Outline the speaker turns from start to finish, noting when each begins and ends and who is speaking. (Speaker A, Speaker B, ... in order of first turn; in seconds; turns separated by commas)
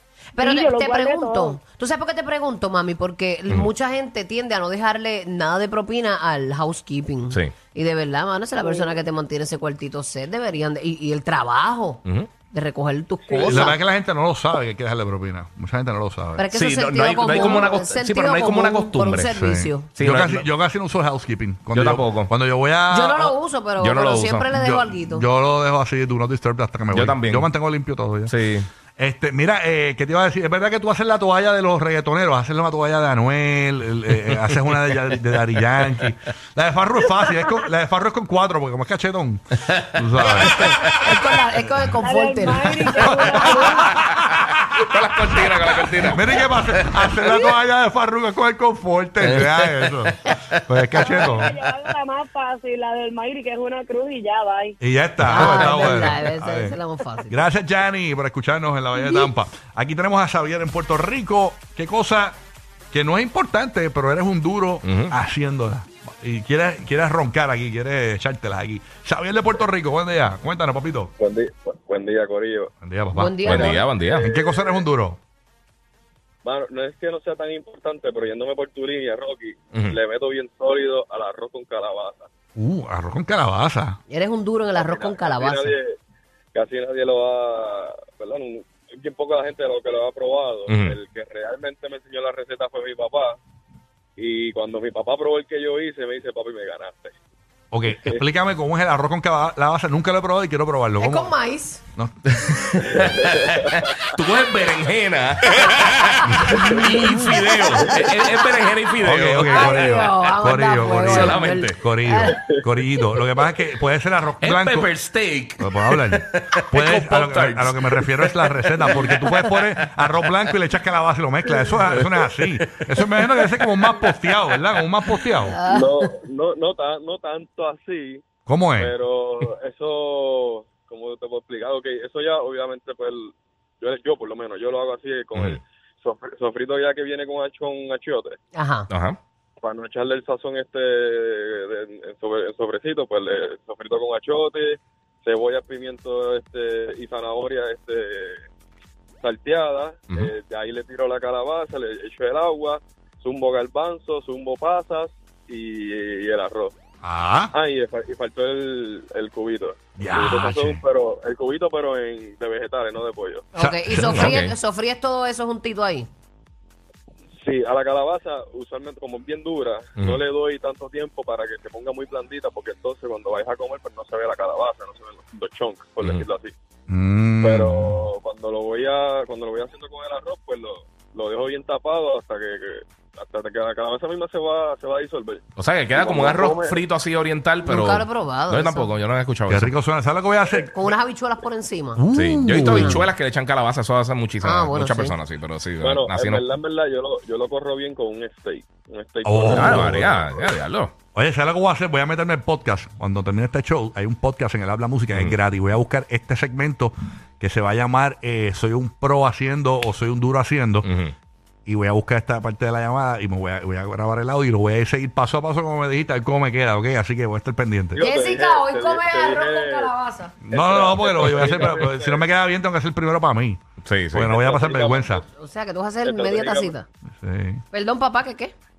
Speaker A: 0.4-13.8, Speaker B: 0.4-1.6, Speaker B: 8.6-9.0, Speaker B: 13.3-13.7, Speaker C: 13.4-16.5, Speaker A: 16.4-19.9, Speaker D: 16.5-19.3, Speaker C: 19.3-23.3, Speaker D: 19.9-20.5, Speaker D: 21.7-22.3, Speaker A: 22.9-25.2, Speaker D: 23.2-24.5, Speaker C: 24.5-28.4, Speaker D: 26.9-27.5, Speaker D: 28.3-28.7, Speaker C: 29.0-40.6, Speaker D: 34.2-35.1, Speaker A: 40.5-43.8, Speaker B: 42.0-43.9, Speaker C: 43.0-44.6, Speaker D: 44.2-47.4, Speaker C: 45.3-51.6, Speaker D: 49.2-50.1, Speaker B: 51.0-54.8, Speaker C: 54.8-62.4, Speaker A: 55.2-57.4, Speaker B: 55.5-55.9, Speaker C: 62.9-71.1, Speaker D: 64.8-65.1, Speaker E: 71.2-72.7, Speaker C: 72.8-73.5, Speaker A: 73.1-73.9, Speaker D: 73.5-74.3, Speaker E: 74.2-74.8, Speaker C: 74.2-75.2, Speaker E: 76.5-82.3, Speaker C: 82.6-84.0, Speaker A: 84.1-85.8, Speaker E: 84.8-85.9, Speaker E: 86.5-93.3, Speaker D: 90.7-91.0, Speaker E: 94.2-97.1, Speaker C: 97.7-101.3, Speaker A: 101.0-101.8, Speaker C: 102.0-102.4, Speaker D: 102.4-110.3, Speaker E: 103.0-103.7, Speaker C: 106.2-107.2, Speaker C: 109.0-114.9, Speaker A: 109.5-112.4, Speaker D: 111.1-111.8, Speaker D: 114.4-119.3, Speaker C: 115.6-125.6, Speaker D: 122.1-123.5, Speaker A: 125.5-125.9, Speaker E: 125.7-128.2, Speaker C: 128.5-128.9, Speaker E: 128.8-133.3, Speaker E: 133.8-138.3, Speaker A: 138.6-138.9, Speaker D: 138.9-139.2, Speaker E: 139.6-148.3, Speaker E: 149.2-156.7, Speaker C: 157.0-157.5, Speaker E: 157.5-163.4, Speaker C: 160.0-160.8, Speaker A: 163.5-166.1, Speaker C: 163.6-164.4, Speaker D: 164.0-164.5, Speaker E: 167.4-176.5, Speaker D: 176.0-176.3, Speaker C: 176.9-178.1, Speaker E: 177.4-185.4, Speaker D: 185.6-189.7, Speaker E: 186.0-186.8, Speaker A: 187.7-188.9, Speaker C: 189.5-190.7, Speaker A: 190.7-192.0, Speaker C: 192.0-193.1, Speaker D: 192.1-196.5, Speaker A: 192.6-193.0, Speaker A: 194.4-195.2, Speaker E: 195.8-200.3, Speaker C: 199.2-200.2, Speaker D: 199.5-200.9, Speaker C: 201.2-210.9, Speaker D: 210.8-211.1, Speaker C: 211.7-218.0, Speaker E: 217.9-219.9, Speaker A: 218.0-220.3, Speaker C: 220.4-223.6, Speaker E: 220.5-222.2, Speaker D: 223.8-224.3, Speaker C: 224.1-225.2, Speaker E: 224.3-225.2, Speaker A: 225.4-226.9, Speaker E: 226.0-226.7, Speaker C: 227.2-227.6, Speaker A: 227.7-228.5